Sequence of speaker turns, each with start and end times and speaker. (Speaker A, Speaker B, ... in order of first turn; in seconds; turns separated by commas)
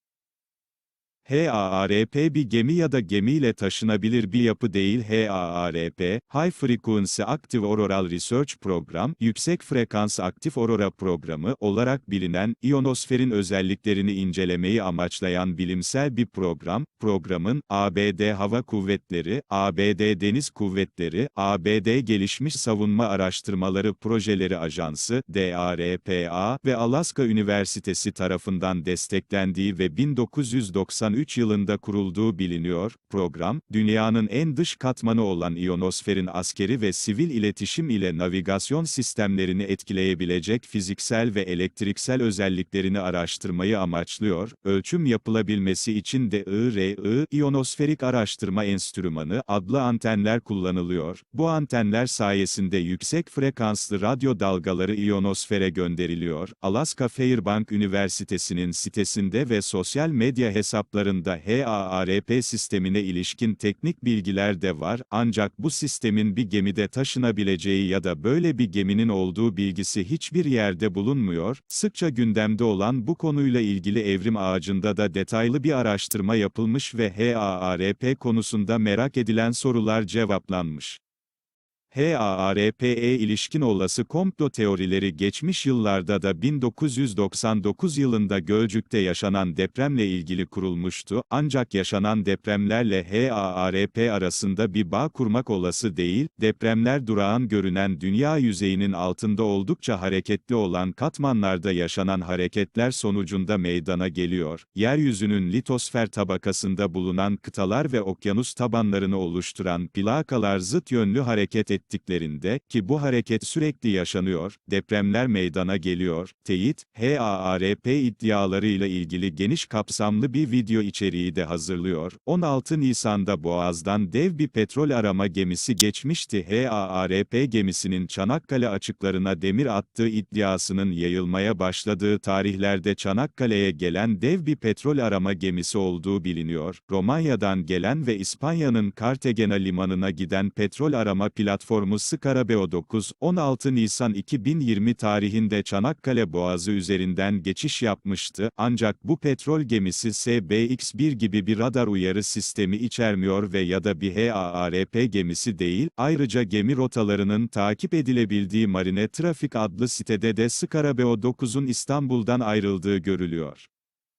Speaker A: 1.2-81.0, Speaker A: 81.9-163.7